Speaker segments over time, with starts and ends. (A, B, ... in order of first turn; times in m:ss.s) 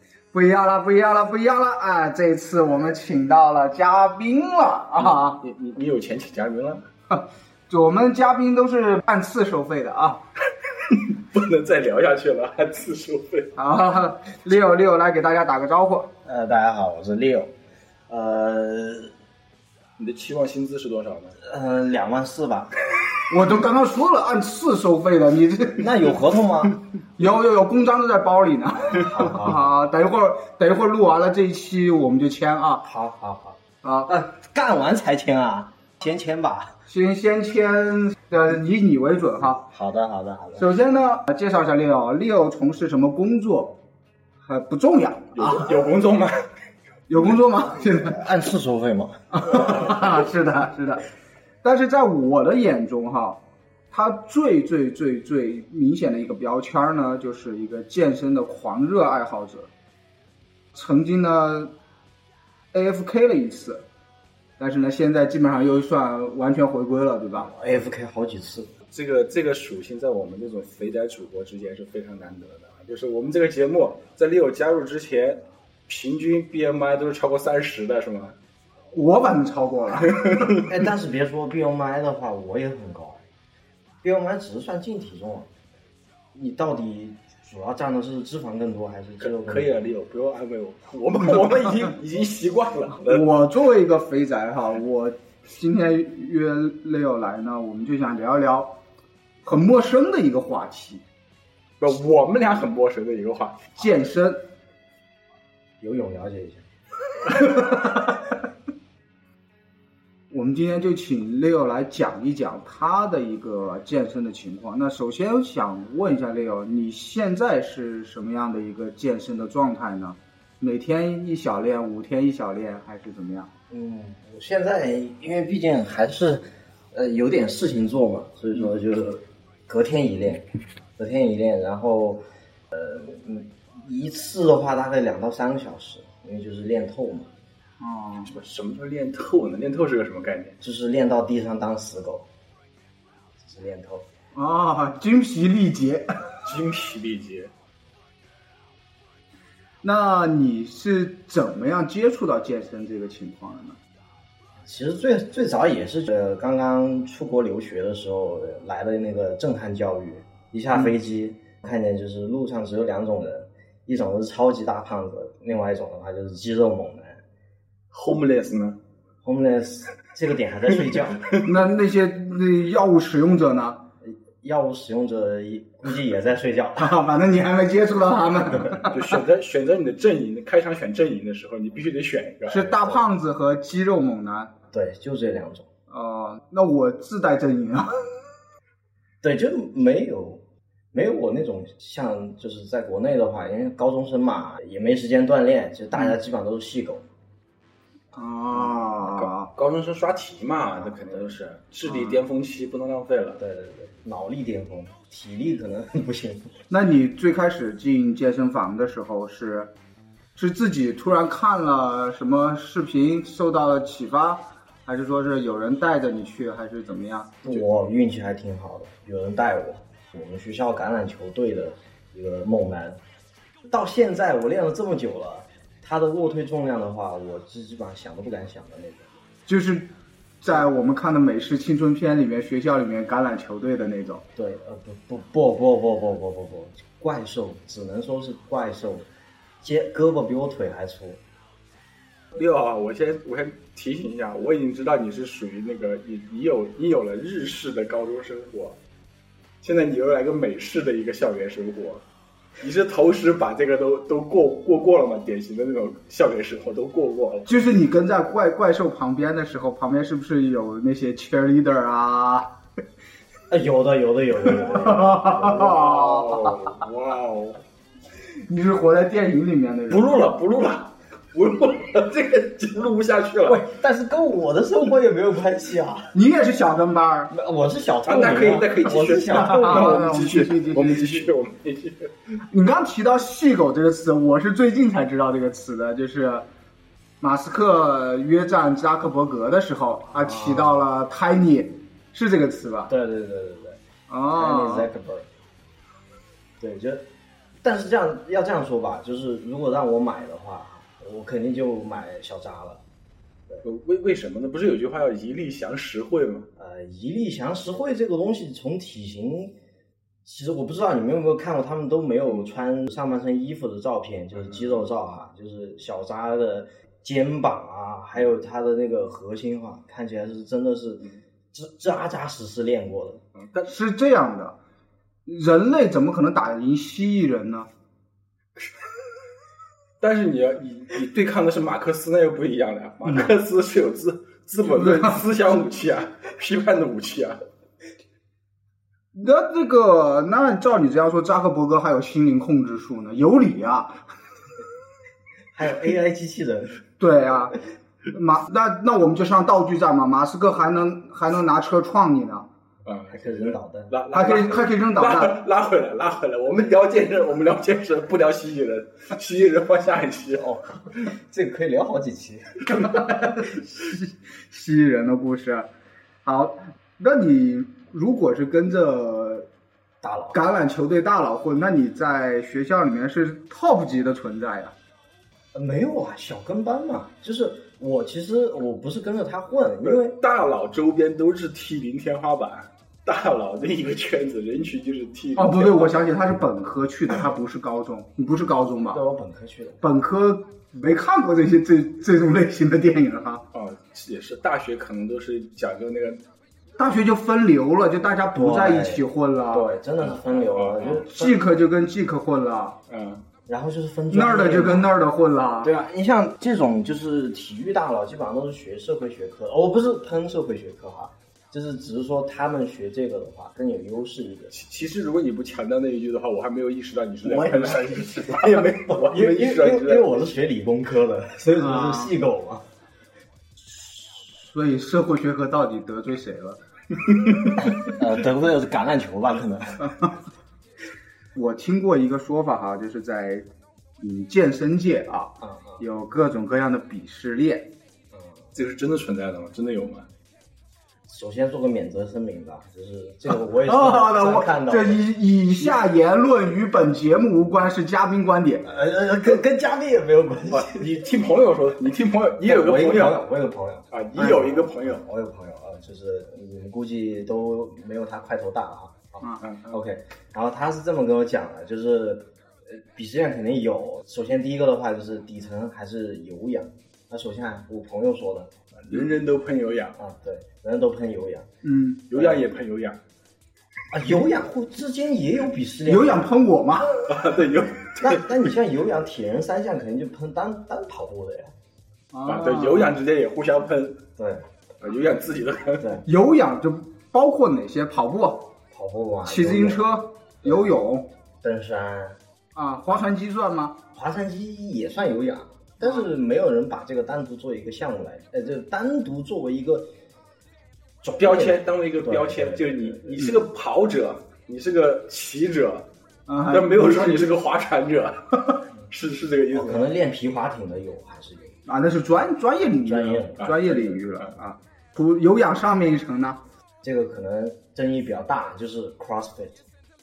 0:00.3-0:05.4 A
0:05.0-0:06.8 B
0:07.1-0:10.2 A
0:10.9-0:13.5 B
0:13.6-0:16.1 A
0:16.2-0:17.5 C
0:18.1-0:19.1 C
0:20.0-0:21.4 B
0:21.4-0:22.7 C
0:23.3-0:26.1 A
0:25.8-0:26.8 C
0:27.2-0:32.8 A
0:28.9-0:29.6 C
0:32.8-0:36.8 C
0:33.8-0:34.1 A
0:36.9-0:39.7 A
0:39.7-0:40.6 C
0:40.6-0:43.8 A
0:44.4-0:45.7 A
0:45.3-0:46.4 B
0:47.1-0:48.2 A
0:47.9-0:49.8 C
0:49.3-0:51.1 A
0:51.6-0:59.7 A
1:00.7-1:01.7 A
1:02.7-1:03.8 A
1:04.6-1:07.5 A
1:07.5-1:08.7 C
1:08.9-1:18.4 B
1:18.9-1:20.5 A
1:20.1-1:20.7 B
1:20.6-1:23.2 C
1:24.0-1:25.5 C
1:26.3-1:29.8 C
1:29.2-1:33.2 B
1:33.0-1:38.8 A
1:39.4-1:41.0 A
1:41.8-1:43.8 B
1:43.8-1:44.5 A
1:45.8-1:46.6 C
1:50.3-2:03.5 A
2:03.7-2:17.3 C
2:17.8-2:18.3 A
2:18.2-2:20.6 B
2:20.6-2:22.3 C
2:23.4-2:24.1 C
2:24.3-2:26.4 A
2:26.4-2:27.5 B
2:29.8-2:33.8 A
2:34.6-2:47.2 C
2:47.9-2:48.8 B
2:49.2-2:51.2 C
2:50.8-2:51.4 B
2:51.4-2:53.8 A
2:54.0-2:56.9 C
2:56.8-2:59.2 A
2:58.7-3:02.8 B
3:02.5-3:04.5 A
3:04.7-3:05.7 C
3:05.9-3:08.0 A
3:09.2-3:17.1 C
3:18.1-3:19.5 A
3:18.7-3:23.4 B
3:20.8-3:21.4 C
3:23.4-3:26.5 C
3:26.7-3:29.7 A
3:30.3-3:37.4 A
3:37.4-3:43.0 C
3:43.7-3:49.1 C
3:49.5-3:54.2 A
3:54.4-3:59.1 C
3:59.6-4:01.2 C
4:02.3-4:08.8 B
4:09.6-4:12.0 B
4:12.6-4:17.5 B
4:17.5-4:22.5 A
4:23.5-4:25.8 C
4:24.6-4:26.6 A
4:25.6-4:27.6 B
4:28.4-4:30.2 A
4:29.9-4:33.6 B
4:33.4-4:36.1 C
4:36.1-4:37.3 A
4:37.3-4:40.1 C
4:38.0-4:42.1 B
4:39.3-4:41.3 A
4:42.5-4:46.5 A
4:47.2-4:52.9 A
4:50.1-4:50.8 C
4:52.9-4:53.8 C
4:54.1-4:54.9 A
4:54.3-4:55.3 C
4:56.6-4:57.1 C
4:57.6-5:02.8 C
5:03.6-5:06.5 B
5:06.6-5:09.6 C
5:10.2-5:23.2 C
5:14.4-5:14.7 B
5:23.3-5:23.7 B
5:23.6-5:24.6 A
5:25.2-5:27.7 A
5:30.0-5:37.4 B
5:34.6-5:35.2 A
5:39.1-5:44.0 A
5:45.5-5:46.8 C
5:47.0-5:47.6 A
5:48.1-5:52.5 A
5:52.8-6:00.5 B
5:53.1-5:53.9 C
5:54.1-5:55.4 A
6:00.4-6:02.9 C
6:02.7-6:05.7 A
6:06.2-6:09.5 A
6:10.0-6:10.4 C
6:10.3-6:14.7 A
6:15.5-6:20.2 C
6:19.8-6:26.0 B
6:25.3-6:29.0 A
6:28.9-6:29.8 C
6:29.8-6:33.4 A
6:33.5-6:36.2 B
6:36.8-6:39.7 A
6:38.3-6:41.5 C
6:40.1-6:41.0 B
6:41.0-6:42.8 A
6:42.9-6:43.2 B
6:43.5-6:44.9 C
6:44.1-6:45.7 A
6:45.6-6:54.5 C
6:54.5-7:00.1 B
6:57.2-6:58.4 A
6:58.9-7:02.7 C
7:01.6-7:02.1 A
7:03.6-7:06.6 A
7:07.8-7:10.0 C
7:11.3-7:13.5 A
7:14.0-7:17.7 A
7:15.4-7:15.8 C
7:18.1-7:18.4 C
7:18.5-7:20.1 B
7:21.1-7:25.0 C
7:23.6-7:28.7 A
7:28.6-7:31.1 C
7:30.5-7:33.3 B
7:32.4-7:48.5 C
7:33.9-7:35.0 B
7:39.4-7:39.8 B
7:48.9-7:50.0 B
7:50.0-7:51.5 C
7:51.6-7:52.1 A
7:52.1-7:53.0 B
7:52.1-7:52.4 C
7:53.9-7:56.3 C
7:55.8-7:56.9 A
7:57.0-7:58.4 B
7:58.0-8:01.5 C
8:02.1-8:03.0 A
8:02.2-8:04.0 B
8:04.2-8:04.5 C
8:04.8-8:05.9 B
8:06.0-8:08.5 A
8:08.7-8:09.8 C
8:09.2-8:11.1 A
8:10.4-8:10.7 C
8:11.4-8:12.2 C
8:12.5-8:13.8 A
8:13.9-8:19.9 C
8:21.0-8:23.3 C
8:21.2-8:25.9 B
8:26.3-8:27.3 A
8:26.5-8:29.9 B
8:29.5-8:31.6 C
8:31.6-8:36.4 A
8:32.8-8:33.6 C
8:33.4-8:34.3 B
8:36.8-8:39.6 C